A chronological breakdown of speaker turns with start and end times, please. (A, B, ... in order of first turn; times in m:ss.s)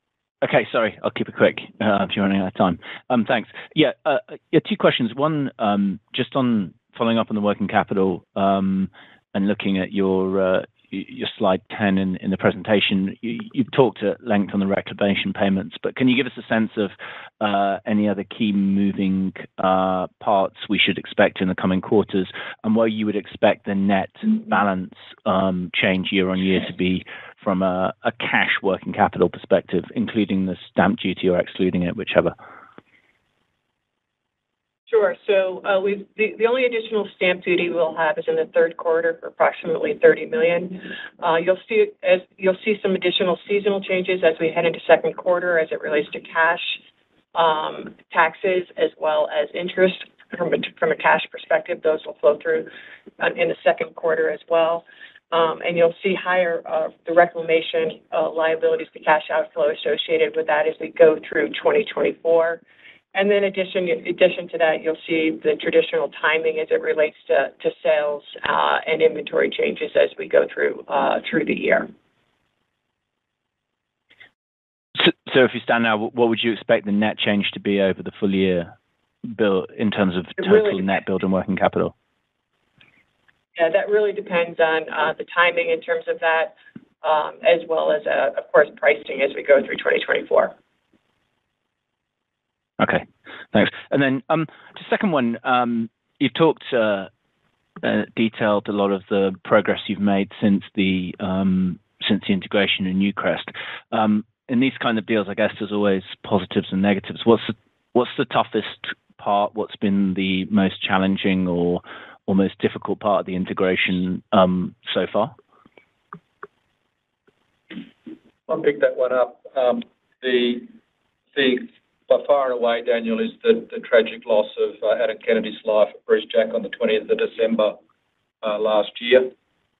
0:00.4-0:32.3 A
0:34.9-0:46.8 B
0:47.3-1:02.6 B
1:03.1-1:11.9 B
1:15.0-1:18.7 A
1:19.3-1:21.9 A
1:20.4-1:20.9 B
1:23.6-1:30.5 B
1:32.8-1:37.1 A
1:37.8-1:55.3 A
1:58.5-2:00.7 C
2:01.3-2:07.8 C
2:08.4-2:09.3 C